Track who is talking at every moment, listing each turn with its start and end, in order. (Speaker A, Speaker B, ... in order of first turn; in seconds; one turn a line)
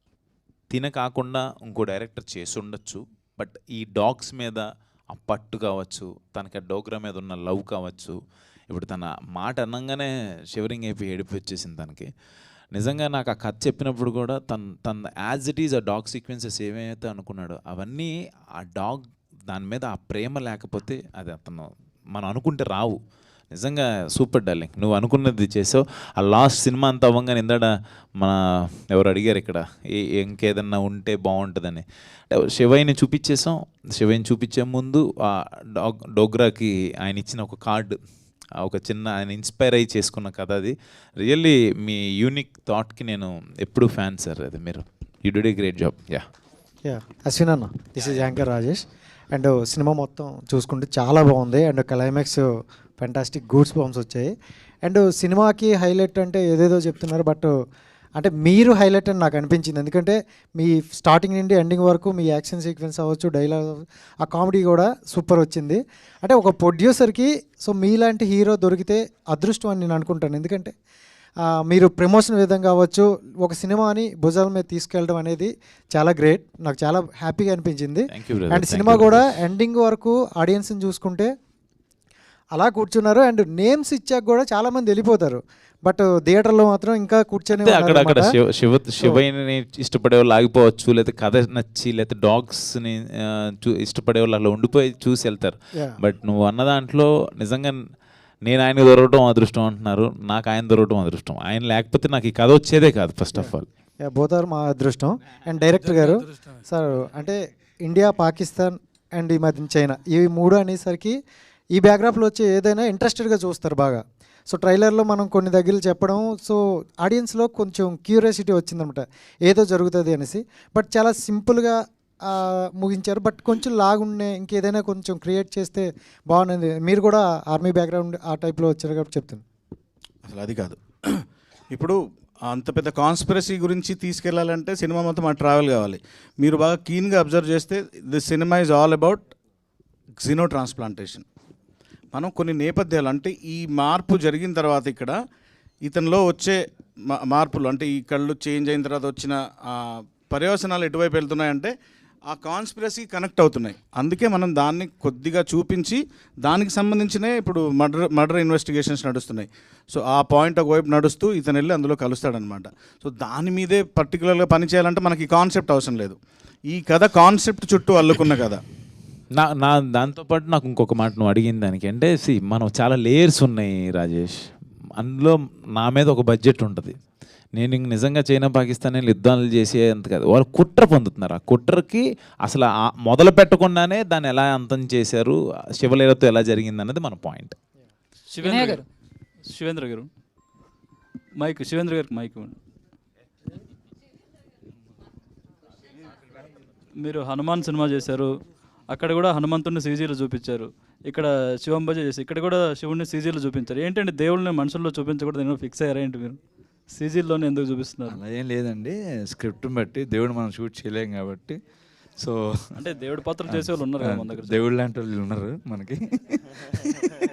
Speaker A: 0.7-8.2
Speaker A: 8.7-12.1
Speaker A: 12.7-23.0
Speaker A: 23.5-28.4
Speaker A: 28.9-38.0
Speaker A: 38.6-46.2
Speaker B: 46.8-52.5
Speaker B: 53.0-57.5
Speaker B: 58.2-70.7
Speaker B: 71.4-81.3
Speaker A: 78.1-79.3
Speaker B: 82.5-88.3
Speaker A: 87.5-97.8
Speaker A: 98.4-103.7
Speaker B: 103.3-111.2
Speaker B: 111.7-129.4
Speaker C: 130.2-139.3
Speaker C: 140.2-141.2
Speaker C: 142.1-145.2
Speaker C: 145.8-151.7
Speaker C: 152.3-166.2
Speaker C: 166.7-168.6
Speaker A: 169.3-174.3
Speaker A: 175.0-176.9
Speaker A: 177.6-187.5
Speaker D: 188.3-188.8
Speaker D: 189.5-190.1
Speaker D: 191.4-192.6
Speaker D: 196.9-198.3
Speaker D: 198.9-206.4
Speaker D: 206.9-208.2
Speaker E: 208.1-211.6
Speaker E: 212.2-212.7
Speaker D: 212.8-214.7
Speaker E: 213.5-216.4